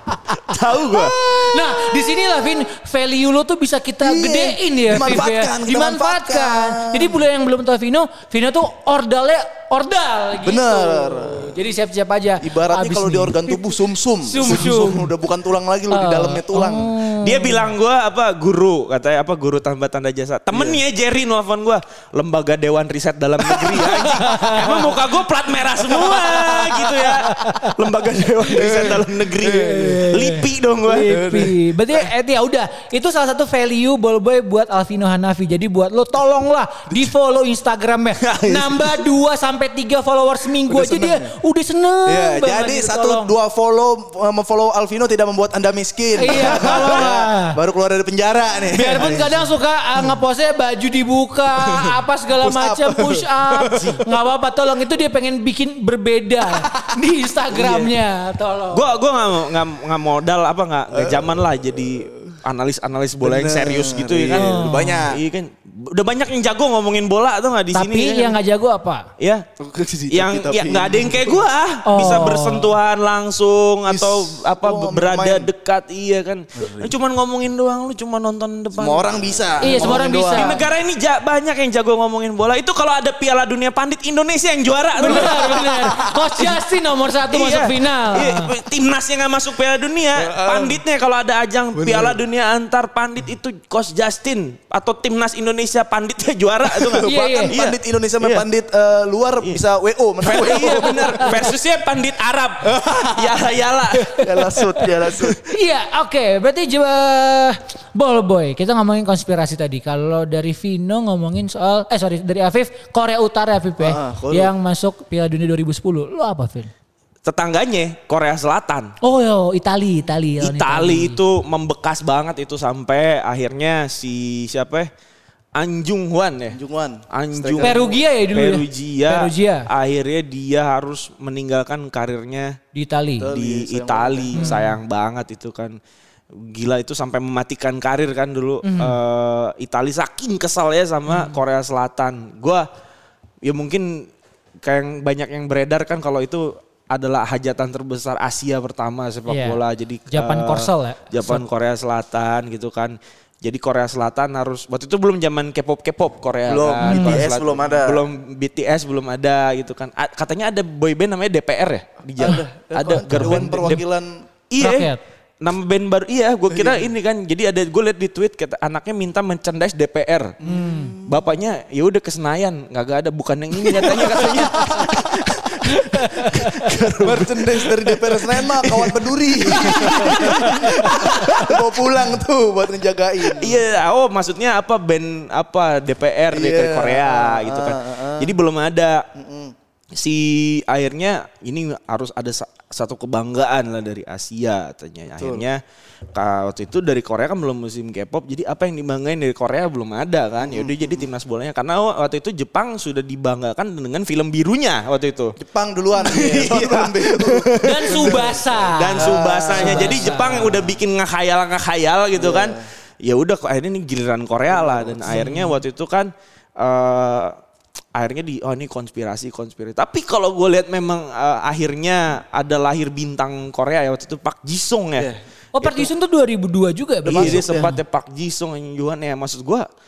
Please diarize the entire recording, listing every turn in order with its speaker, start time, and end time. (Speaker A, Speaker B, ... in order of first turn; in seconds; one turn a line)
Speaker A: 0.3-1.2
Speaker B: 0.9-13.6
Speaker C: 4.0-7.2
Speaker C: 10.4-11.6
Speaker C: 12.4-16.9
Speaker B: 14.2-15.1
Speaker B: 15.9-17.7
Speaker A: 17.2-31.2
Speaker C: 20.5-20.8
Speaker B: 23.8-25.0
Speaker B: 25.8-27.7
Speaker C: 28.5-30.1
Speaker B: 29.4-43.3
Speaker C: 31.1-32.1
Speaker A: 38.2-39.0
Speaker C: 40.7-41.3
Speaker C: 42.1-49.5
Speaker B: 46.2-47.6
Speaker B: 48.7-58.9
Speaker C: 51.6-54.0
Speaker A: 53.7-54.0
Speaker C: 56.5-56.9
Speaker C: 57.6-57.9
Speaker A: 58.7-68.4
Speaker C: 60.9-62.4
Speaker C: 63.2-65.2
Speaker B: 64.3-65.1
Speaker B: 67.7-69.1
Speaker A: 69.2-69.5
Speaker C: 69.6-71.4
Speaker A: 70.1-85.7
Speaker B: 71.9-72.8
Speaker C: 73.9-75.5
Speaker C: 76.6-76.9
Speaker C: 78.8-80.6
Speaker B: 79.6-80.6
Speaker B: 85.0-88.5
Speaker C: 85.0-86.4
Speaker A: 87.3-98.5
Speaker C: 90.2-90.8
Speaker C: 91.8-92.2
Speaker C: 96.7-101.5
Speaker B: 97.0-97.5
Speaker A: 100.2-104.3
Speaker C: 102.7-103.5
Speaker C: 104.0-105.4
Speaker B: 105.5-116.7
Speaker C: 113.8-114.5
Speaker A: 117.2-119.0
Speaker B: 119.0-121.2
Speaker A: 120.4-124.9
Speaker A: 125.6-126.6
Speaker C: 126.5-128.0
Speaker A: 127.1-132.6
Speaker B: 127.6-129.7
Speaker B: 132.7-133.3
Speaker C: 133.2-134.6
Speaker A: 133.3-135.8
Speaker B: 134.3-134.8
Speaker A: 136.3-142.7
Speaker B: 138.6-139.0
Speaker B: 141.1-141.4
Speaker A: 143.4-144.1
Speaker A: 144.6-163.8
Speaker B: 149.3-151.4
Speaker C: 156.5-158.0
Speaker B: 156.8-157.3
Speaker C: 162.2-164.2
Speaker B: 163.0-163.8
Speaker A: 164.5-170.4
Speaker B: 164.6-165.0
Speaker C: 166.5-166.9
Speaker C: 170.4-171.2
Speaker B: 170.4-171.0
Speaker A: 171.0-181.8
Speaker C: 173.7-175.6
Speaker B: 175.7-176.5
Speaker C: 177.0-183.6
Speaker B: 179.8-180.3
Speaker A: 183.3-189.1
Speaker C: 186.3-188.3
Speaker C: 189.2-189.5
Speaker A: 189.9-195.6
Speaker C: 195.2-195.5
Speaker A: 196.1-205.4
Speaker C: 200.4-201.1
Speaker C: 205.4-210.8
Speaker A: 206.0-217.3
Speaker B: 207.6-210.5
Speaker C: 212.1-212.7
Speaker C: 214.5-215.2
Speaker B: 215.1-215.6
Speaker A: 217.9-225.1
Speaker B: 225.6-227.7
Speaker C: 227.1-227.8
Speaker A: 227.1-229.7